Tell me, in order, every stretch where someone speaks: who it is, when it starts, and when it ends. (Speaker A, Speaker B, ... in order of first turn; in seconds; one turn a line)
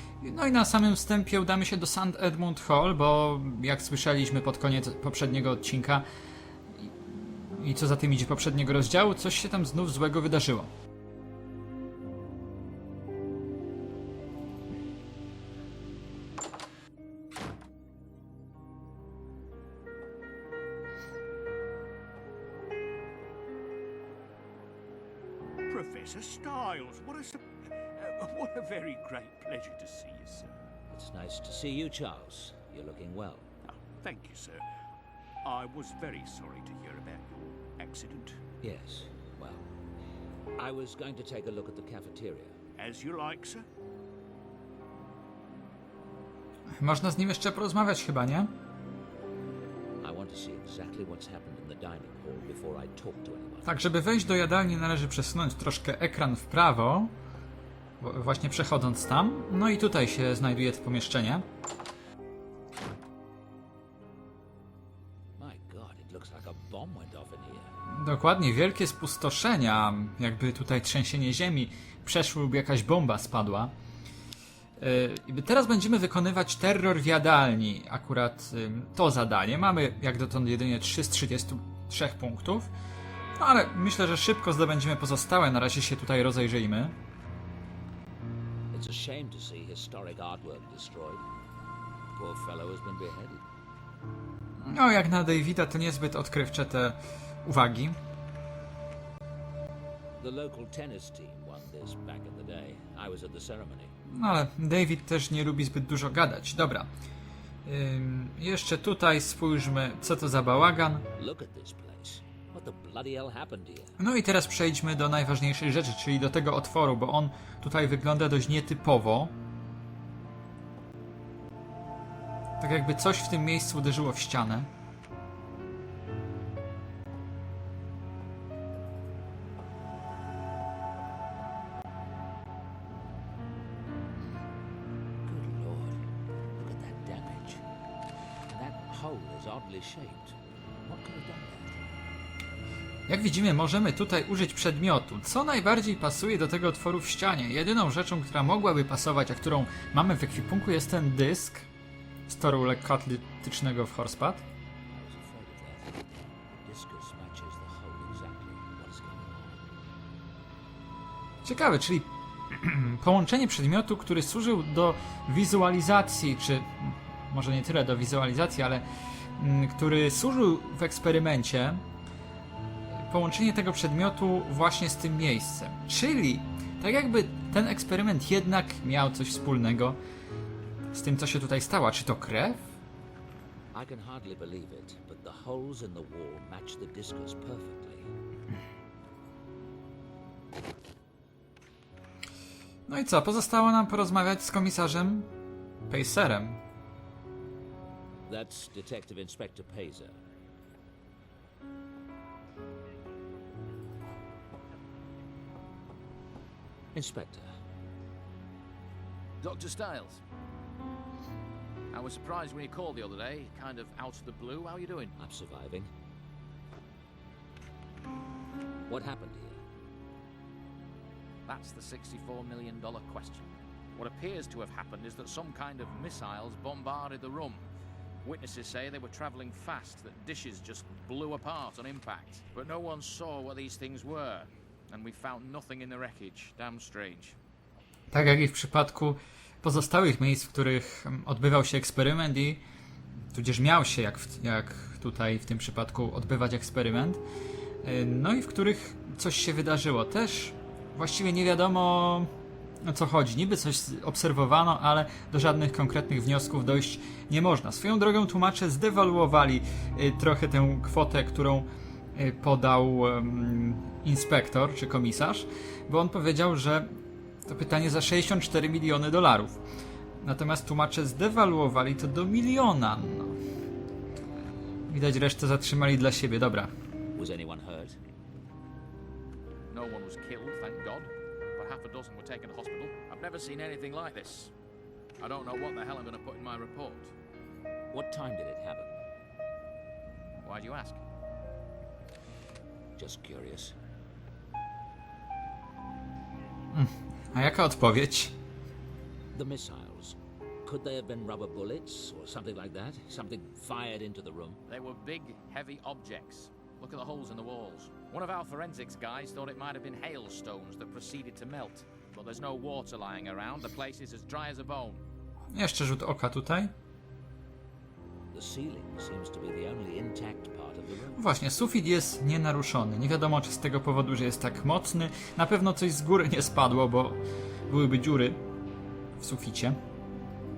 Speaker A: 0.2-6.0
Speaker A: 6.7-10.7
Speaker B: 25.7-30.7
Speaker C: 30.9-33.5
Speaker B: 33.7-34.7
Speaker B: 35.4-38.4
Speaker C: 38.6-39.7
Speaker C: 40.6-42.6
Speaker B: 42.8-43.7
Speaker A: 46.8-48.5
Speaker C: 50.0-53.8
Speaker A: 53.6-57.1
Speaker A: 58.0-61.5
Speaker C: 65.4-67.8
Speaker A: 67.9-73.7
Speaker A: 74.8-82.7
Speaker A: 83.4-87.0
Speaker C: 88.7-91.2
Speaker C: 92.1-93.4
Speaker A: 94.6-98.0
Speaker C: 100.2-103.9
Speaker A: 104.1-106.9
Speaker A: 107.7-111.0
Speaker C: 111.1-114.0
Speaker A: 114.0-119.3
Speaker A: 122.6-124.7
Speaker C: 135.2-137.6
Speaker C: 138.5-141.9
Speaker A: 143.1-151.7
Speaker A: 152.3-154.4
Speaker C: 154.9-159.7
Speaker A: 161.4-168.8
Speaker A: 169.4-171.8
Speaker A: 172.9-180.0
Speaker A: 180.9-182.7
Speaker C: 183.7-188.1
Speaker A: 192.9-195.3
Speaker A: 195.9-196.6
Speaker C: 198.3-200.2
Speaker C: 206.9-207.5
Speaker D: 209.4-210.2
Speaker D: 211.9-215.2
Speaker C: 215.2-215.9
Speaker C: 218.9-219.6
Speaker D: 221.4-227.7
Speaker D: 228.2-237.4
Speaker A: 238.1-242.6
Speaker A: 243.3-247.2
Speaker A: 247.8-252.3
Speaker A: 252.8-266.9
Speaker A: 267.5-269.6
Speaker A: 270.2-273.4
Speaker A: 274.9-276.7
Speaker C: 277.2-278.0
Speaker D: 279.7-284.5
Speaker D: 285.2-287.1
Speaker C: 287.9-288.9
Speaker D: 290.4-291.0
Speaker C: 293.0-293.8
Speaker A: 296.7-298.3
Speaker C: 299.3-304.6
Speaker D: 304.7-315.0
Speaker A: 315.5-316.7
Speaker C: 318.3-321.2
Speaker A: 321.2-328.4
Speaker A: 329.2-329.8